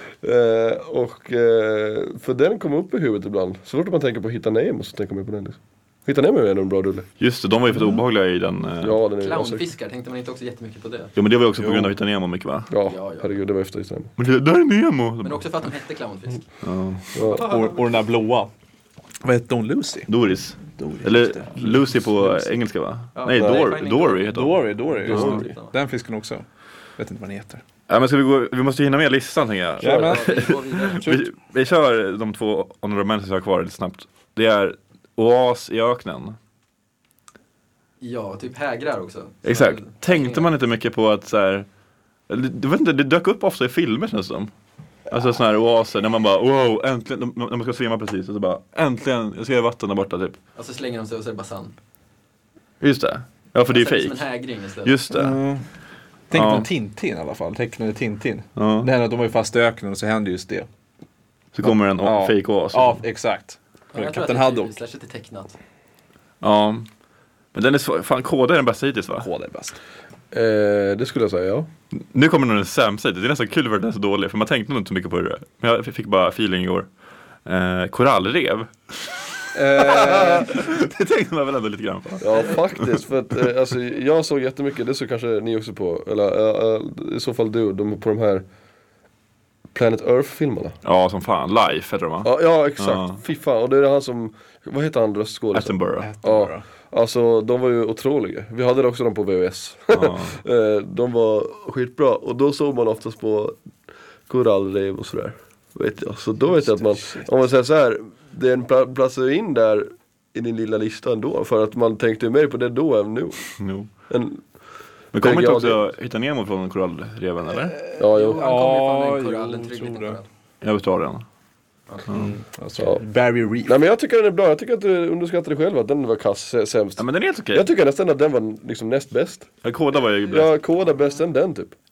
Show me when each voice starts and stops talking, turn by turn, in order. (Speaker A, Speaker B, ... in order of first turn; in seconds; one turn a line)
Speaker A: 0.2-7.1
Speaker B: 7.2-9.0
Speaker A: 8.8-9.7
Speaker C: 9.2-11.1
Speaker B: 11.2-12.7
Speaker A: 12.7-14.1
Speaker C: 12.8-13.3
Speaker B: 14.2-15.4
Speaker C: 15.2-16.4
Speaker B: 16.6-17.1
Speaker C: 17.1-17.9
Speaker A: 17.2-17.4
Speaker D: 17.2-18.5
Speaker D: 19.2-20.1
Speaker B: 20.1-25.4
Speaker D: 20.6-22.5
Speaker C: 23.1-24.3
Speaker D: 24.3-26.5
Speaker C: 25.1-25.8
Speaker A: 25.1-25.5
Speaker D: 27.0-27.6
Speaker B: 27.9-36.4
Speaker D: 29.8-31.2
Speaker C: 29.8-31.2
Speaker C: 38.0-40.5
Speaker B: 39.4-41.7
Speaker B: 42.3-44.5
Speaker B: 45.1-50.4
Speaker C: 50.6-51.8
Speaker B: 52.8-54.2
Speaker C: 53.7-55.0
Speaker B: 54.8-55.4
Speaker D: 55.1-55.7
Speaker D: 56.3-60.7
Speaker B: 56.3-56.7
Speaker B: 58.6-58.9
Speaker B: 61.5-63.0
Speaker D: 61.7-64.7
Speaker C: 63.9-65.6
Speaker B: 66.4-66.9
Speaker B: 67.5-69.3
Speaker D: 69.2-69.8
Speaker A: 70.3-71.7
Speaker B: 71.9-76.9
Speaker B: 77.5-82.9
Speaker D: 79.5-80.5
Speaker A: 80.0-80.5
Speaker A: 82.2-88.5
Speaker A: 89.7-90.8
Speaker B: 90.8-93.2
Speaker A: 92.2-103.6
Speaker B: 95.5-96.1
Speaker D: 96.0-96.7
Speaker B: 99.9-100.4
Speaker A: 104.3-114.4
Speaker D: 106.5-107.3
Speaker B: 113.6-113.9
Speaker B: 115.1-117.8
Speaker A: 115.2-115.8
Speaker D: 117.7-120.2
Speaker A: 118.0-118.4
Speaker C: 118.1-120.3
Speaker B: 120.6-121.2
Speaker D: 122.1-123.8
Speaker A: 122.8-123.0
Speaker A: 123.7-129.5
Speaker B: 127.0-127.7
Speaker B: 129.6-130.5
Speaker A: 130.3-131.7